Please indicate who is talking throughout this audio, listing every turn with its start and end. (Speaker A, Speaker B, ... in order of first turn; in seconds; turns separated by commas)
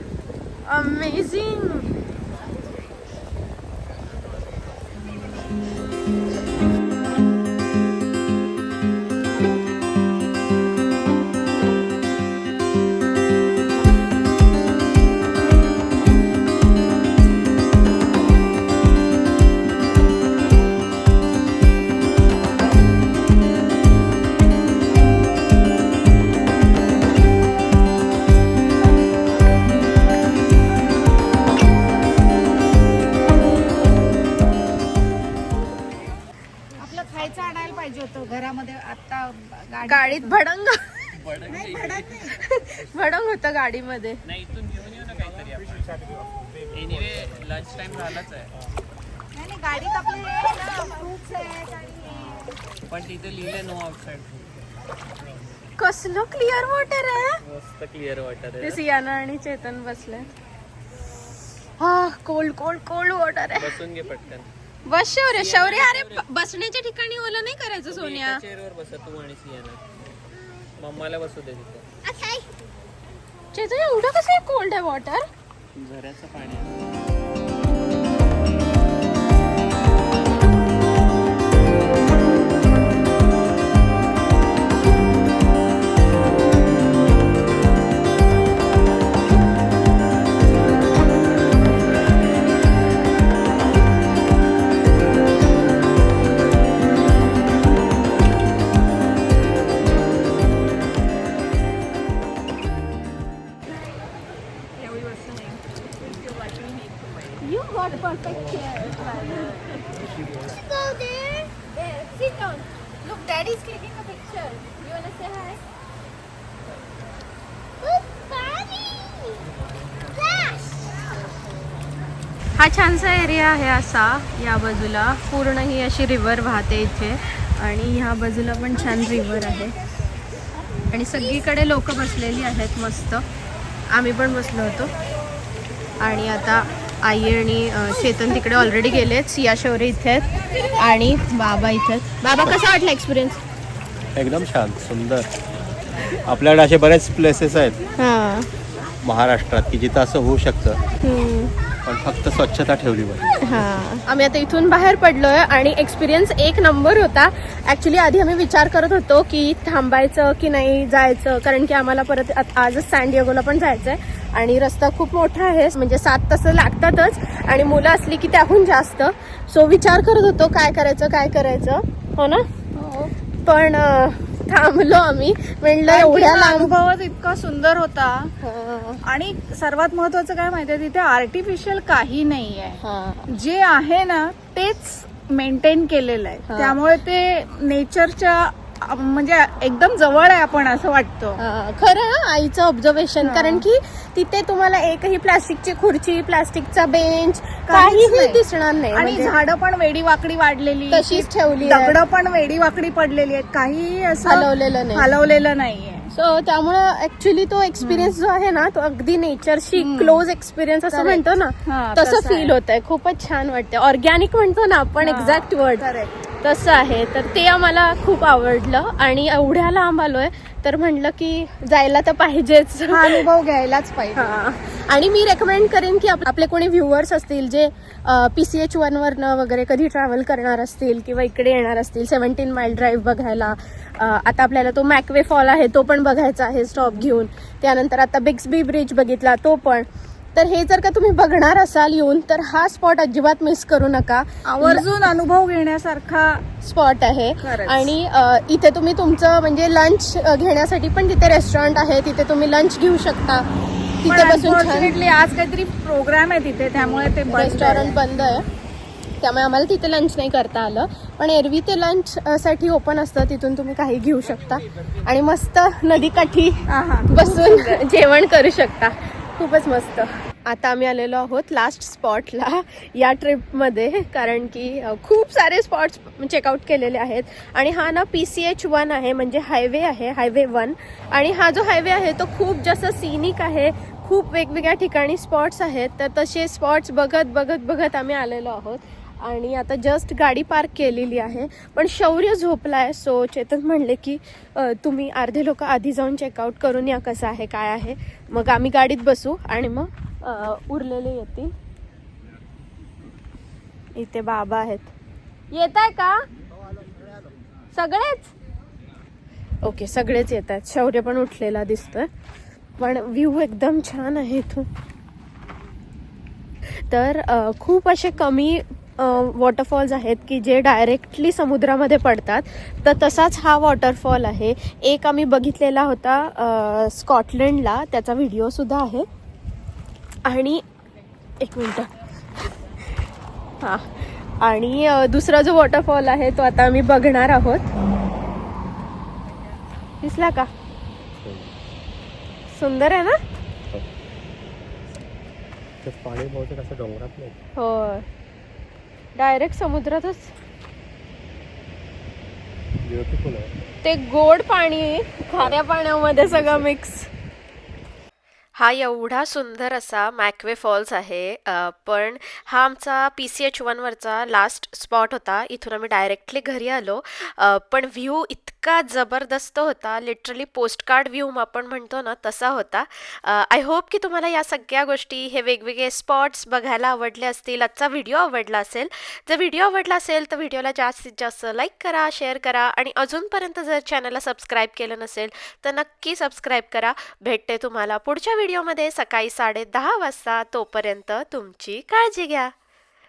Speaker A: 0.7-1.9, Speaker B: 36.8-40.3, Speaker A: 39.8-41.0, Speaker C: 41.2-42.4, Speaker B: 41.7-42.1, Speaker A: 42.2-44.2, Speaker C: 44.2-46.0, Speaker C: 46.7-48.5, Speaker B: 49.4-52.6, Speaker C: 52.9-54.5, Speaker A: 55.8-57.4, Speaker C: 57.4-58.8, Speaker A: 58.6-60.3, Speaker A: 61.8-63.8, Speaker C: 63.6-64.5, Speaker A: 64.9-68.4, Speaker C: 65.3-66.2, Speaker C: 67.9-69.8, Speaker D: 70.4-70.6, Speaker C: 70.8-71.8, Speaker D: 72.0-72.5, Speaker A: 73.5-75.2, Speaker C: 75.8-76.8, Speaker B: 104.8-107.2, Speaker A: 107.4-109.9, Speaker D: 110.3-111.7, Speaker A: 111.7-115.6, Speaker D: 117.8-119.5, Speaker D: 120.1-121.0, Speaker A: 122.6-129.8, Speaker A: 130.9-133.2, Speaker A: 133.9-134.9, Speaker A: 136.0-143.4, Speaker E: 144.2-145.3, Speaker E: 146.2-147.8, Speaker A: 148.0-148.5, Speaker E: 149.0-150.8, Speaker A: 151.0-151.5, Speaker E: 151.8-153.3, Speaker A: 153.4-172.4, Speaker B: 172.8-173.1, Speaker A: 173.4-176.8, Speaker B: 175.9-178.3, Speaker A: 178.4-179.0, Speaker B: 179.1-191.4, Speaker A: 182.8-183.3, Speaker A: 186.5-186.8, Speaker A: 191.4-199.3, Speaker B: 193.2-193.6, Speaker B: 197.7-198.4, Speaker B: 198.9-206.1, Speaker A: 200.9-202.0, Speaker A: 204.3-205.1, Speaker A: 206.1-215.9, Speaker B: 207.8-208.1, Speaker B: 209.8-210.2, Speaker B: 210.9-212.6, Speaker B: 215.0-216.1, Speaker A: 216.4-223.2, Speaker B: 222.9-224.3, Speaker A: 224.1-244.9, Speaker B: 244.5-246.4, Speaker A: 246.6-253.4, Speaker B: 247.4-247.9, Speaker A: 254.0-254.9, Speaker B: 254.1-258.0, Speaker A: 256.8-258.5, Speaker A: 259.2-301.5, Speaker B: 266.7-267.8, Speaker A: 304.0-304.9, Speaker A: 305.5-306.2, Speaker A: 307.8-308.3, Speaker A: 309.6-312.1, Speaker A: 312.8-314.7, Speaker A: 316.8-329.1, Speaker A: 330.3-330.6, Speaker A: 331.4-331.9, Speaker A: 333.6-337.7, Speaker A: 340.0-340.5, Speaker E: 341.2-341.5, Speaker A: 342.5-343.2, Speaker E: 345.8-347.3, Speaker A: 347.6-348.1, Speaker A: 349.1-350.3, Speaker E: 352.9-353.5, Speaker A: 353.8-357.1, Speaker E: 356.2-356.6, Speaker A: 358.6-392.5